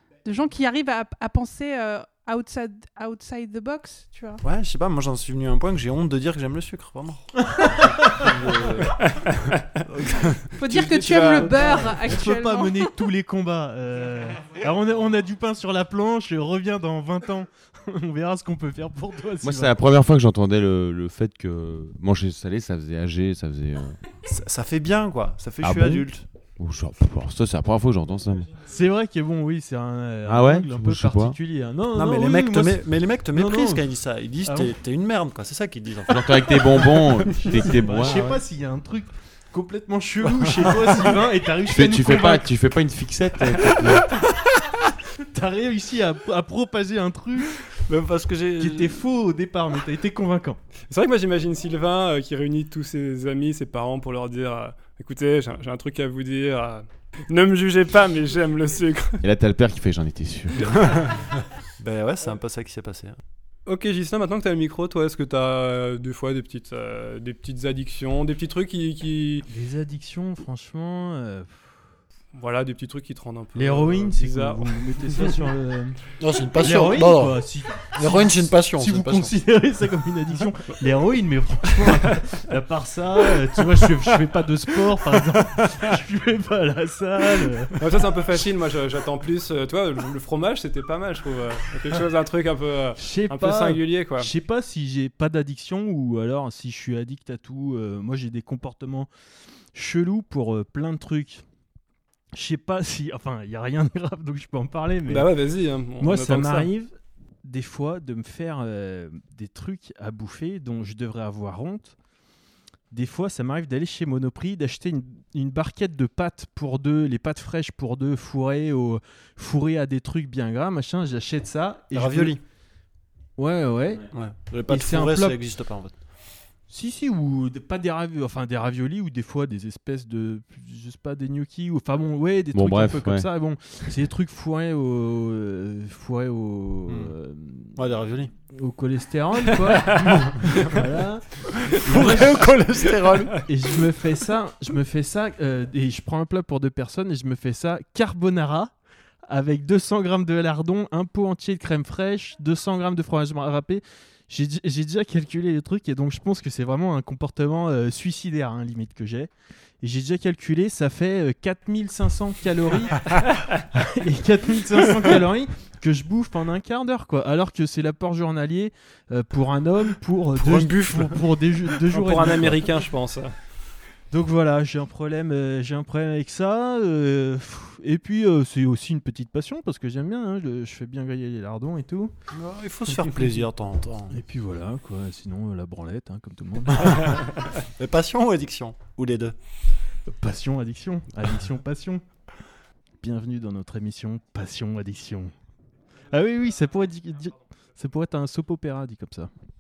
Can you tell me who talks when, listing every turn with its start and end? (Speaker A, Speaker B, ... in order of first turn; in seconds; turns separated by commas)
Speaker A: 0.2-4.4, Speaker B: 4.4-9.3, Speaker C: 7.4-8.3, Speaker D: 9.0-9.8, Speaker B: 9.9-10.6, Speaker A: 10.6-12.9, Speaker D: 10.7-11.5, Speaker C: 10.7-19.8, Speaker E: 19.4-24.0, Speaker B: 24.3-26.3, Speaker E: 25.6-26.1, Speaker E: 26.6-28.6, Speaker C: 28.6-33.8, Speaker E: 30.2-31.4, Speaker B: 31.9-38.4, Speaker C: 34.5-34.7, Speaker E: 36.1-38.4, Speaker C: 37.3-42.5, Speaker B: 40.2-41.2, Speaker E: 41.7-44.1, Speaker C: 45.2-47.6, Speaker B: 47.7-49.0, Speaker C: 48.6-50.6, Speaker D: 50.9-59.2, Speaker E: 59.2-61.1, Speaker B: 60.6-61.2, Speaker B: 61.8-63.2, Speaker D: 63.7-69.5, Speaker C: 69.5-71.7, Speaker D: 72.3-74.8, Speaker C: 73.5-87.8, Speaker B: 76.2-79.3, Speaker D: 87.8-94.3, Speaker C: 93.0-99.1, Speaker C: 99.7-101.4, Speaker C: 102.3-105.3, Speaker D: 105.1-106.7, Speaker C: 106.0-112.0, Speaker C: 112.9-122.4, Speaker B: 121.9-122.4, Speaker C: 123.4-124.1, Speaker B: 124.1-125.9, Speaker C: 124.7-125.4, Speaker C: 126.7-137.9, Speaker E: 132.5-133.3, Speaker B: 136.9-137.1, Speaker B: 137.8-138.3, Speaker C: 138.5-142.6, Speaker D: 140.0-140.3, Speaker B: 141.7-143.5, Speaker C: 143.4-148.7, Speaker C: 149.3-172.8, Speaker B: 170.4-171.4, Speaker D: 171.9-173.3, Speaker C: 174.1-182.1, Speaker B: 182.3-184.2, Speaker C: 184.1-187.4, Speaker B: 186.8-189.3, Speaker C: 190.1-192.0, Speaker C: 193.0-195.3, Speaker C: 196.1-199.3